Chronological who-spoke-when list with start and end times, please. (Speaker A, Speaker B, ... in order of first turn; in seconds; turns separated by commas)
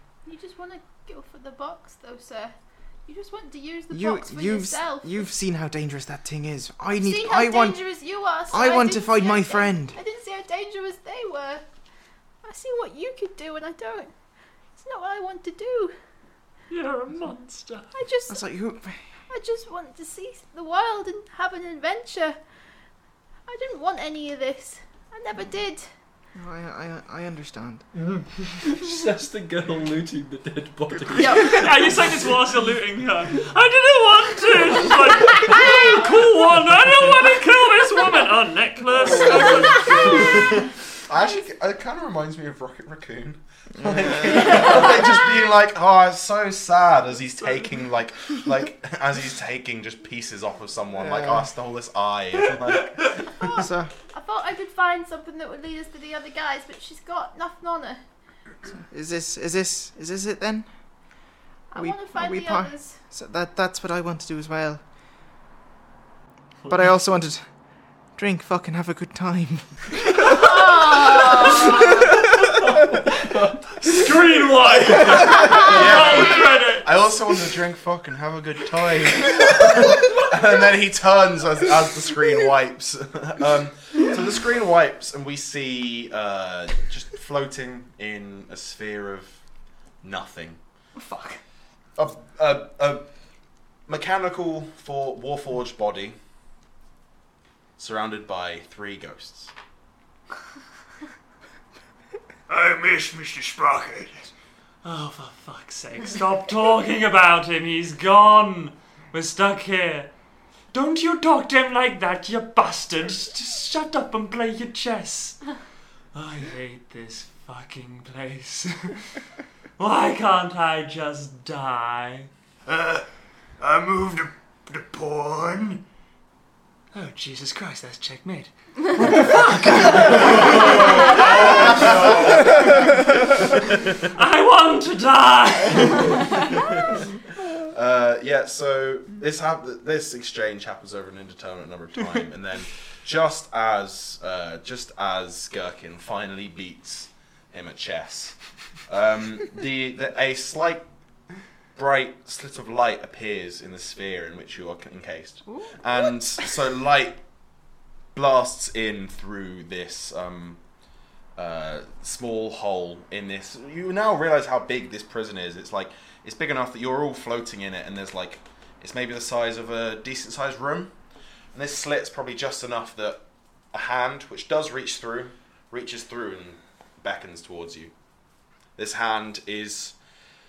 Speaker A: 0.2-2.5, Speaker A: 3.1-5.2, Speaker B: 3.9-7.8, Speaker A: 6.9-11.6, Speaker B: 8.5-10.0, Speaker A: 12.4-14.1, Speaker A: 14.8-15.9, Speaker C: 16.7-17.9, Speaker A: 17.9-18.4, Speaker B: 18.3-19.0, Speaker A: 19.3-22.4, Speaker A: 23.5-25.9, Speaker B: 26.3-27.8, Speaker C: 27.9-28.2, Speaker D: 28.6-31.9, Speaker A: 31.1-31.6, Speaker C: 31.4-40.5, Speaker A: 35.2-36.1, Speaker E: 38.9-53.6, Speaker A: 39.5-40.1, Speaker D: 40.0-40.5, Speaker B: 43.8-44.8, Speaker C: 47.4-47.7, Speaker B: 51.0-51.4, Speaker A: 53.3-58.0, Speaker B: 53.5-53.9, Speaker B: 58.9-60.7, Speaker A: 61.7-63.0, Speaker B: 61.7-64.8, Speaker B: 66.7-67.4, Speaker B: 68.2-72.2, Speaker A: 70.4-71.6, Speaker D: 72.6-73.9, Speaker C: 73.8-77.1, Speaker E: 75.1-89.4, Speaker E: 90.0-90.6, Speaker A: 91.0-91.4, Speaker E: 92.0-93.1, Speaker E: 93.9-96.2, Speaker E: 97.8-99.5, Speaker C: 102.5-104.3, Speaker C: 104.8-110.1, Speaker C: 110.7-115.4, Speaker C: 116.1-119.0, Speaker C: 119.8-123.0, Speaker C: 123.6-125.8, Speaker C: 126.9-136.5, Speaker E: 130.0-134.0, Speaker E: 135.8-136.8, Speaker E: 137.6-150.8, Speaker E: 151.7-157.2, Speaker E: 158.1-160.6, Speaker E: 161.3-170.9, Speaker E: 171.5-177.9, Speaker E: 178.8-179.9